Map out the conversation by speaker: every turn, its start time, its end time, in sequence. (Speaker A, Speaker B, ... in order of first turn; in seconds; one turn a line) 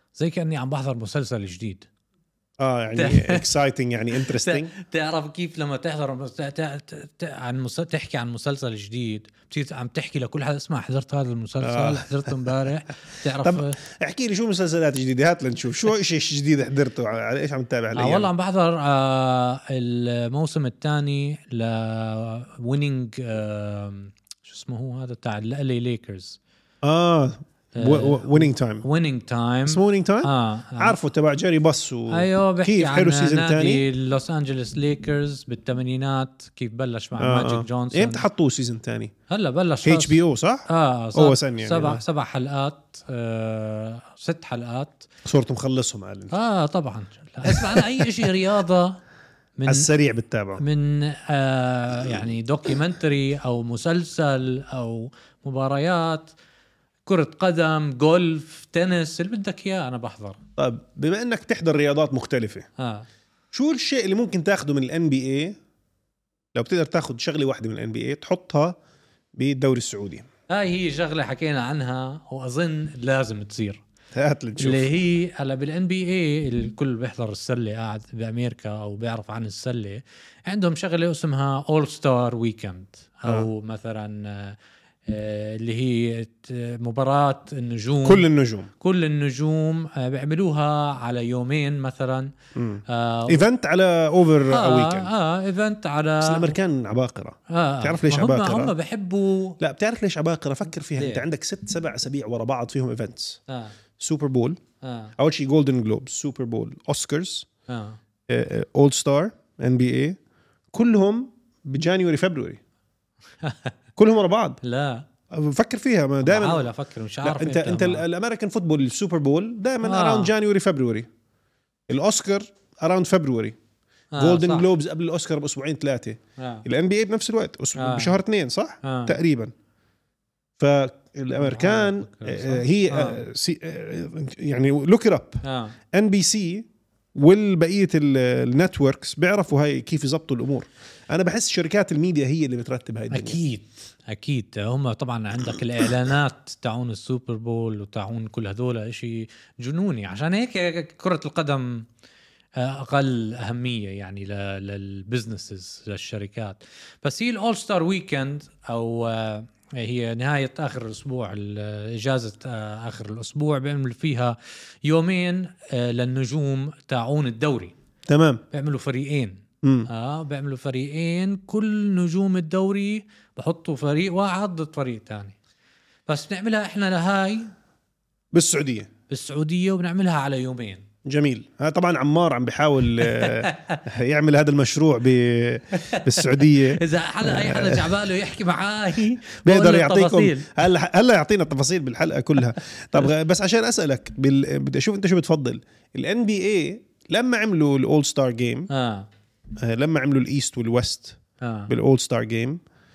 Speaker A: 0.2-1.9
Speaker B: 2.6-4.7
Speaker A: 3.0-3.5
Speaker A: 4.1-13.8
Speaker B: 11.6-12.7
Speaker B: 13.4-18.3
Speaker A: 17.9-26.4
Speaker B: 26.8-28.8
Speaker A: 27.8-31.0
Speaker B: 29.6-33.8
Speaker A: 32.1-38.2
Speaker B: 37.2-39.1
Speaker A: 39.3-45.1
Speaker B: 39.8-42.0
Speaker B: 45.2-46.3
Speaker A: 46.3-49.0
Speaker B: 47.4-48.3
Speaker A: 49.6-49.9
Speaker B: 49.7-50.6
Speaker A: 50.6-56.3
Speaker A: 57.0-60.4
Speaker B: 60.6-62.7
Speaker A: 62.8-63.1
Speaker B: 63.5-65.6
Speaker B: 66.5-68.8
Speaker B: 69.3-70.2
Speaker A: 70.5-73.8
Speaker B: 74.1-74.9
Speaker A: 74.6-88.3
Speaker B: 88.0-88.7
Speaker A: 88.8-92.3
Speaker B: 92.5-95.1
Speaker A: 92.9-93.5
Speaker A: 94.5-96.6
Speaker B: 96.2-98.7
Speaker A: 97.5-99.6
Speaker B: 99.6-103.4
Speaker A: 101.0-101.2
Speaker A: 103.5-103.7
Speaker B: 104.0-104.6
Speaker A: 104.8-105.1
Speaker B: 105.2-107.5
Speaker A: 107.7-108.0
Speaker B: 108.3-110.2
Speaker B: 110.7-112.6
Speaker A: 113.4-113.7
Speaker B: 114.0-114.6
Speaker A: 114.6-115.0
Speaker B: 115.3-116.7
Speaker A: 116.2-118.0
Speaker B: 117.2-121.1
Speaker A: 119.8-120.3
Speaker B: 121.9-123.5
Speaker A: 124.1-124.7
Speaker B: 124.2-129.5
Speaker A: 126.4-126.6
Speaker A: 127.8-128.2
Speaker A: 128.8-129.2
Speaker B: 130.6-143.4
Speaker A: 131.4-133.2
Speaker A: 135.4-135.8
Speaker A: 143.1-151.8
Speaker A: 152.6-167.7
Speaker B: 168.1-168.4
Speaker A: 168.5-175.3
Speaker B: 169.6-169.9
Speaker A: 176.1-177.5
Speaker B: 178.3-178.9
Speaker A: 179.1-180.8
Speaker B: 181.1-187.9
Speaker A: 183.0-183.8
Speaker A: 185.7-190.6
Speaker B: 189.4-198.7
Speaker A: 198.7-199.1
Speaker B: 199.6-202.6
Speaker A: 201.4-201.7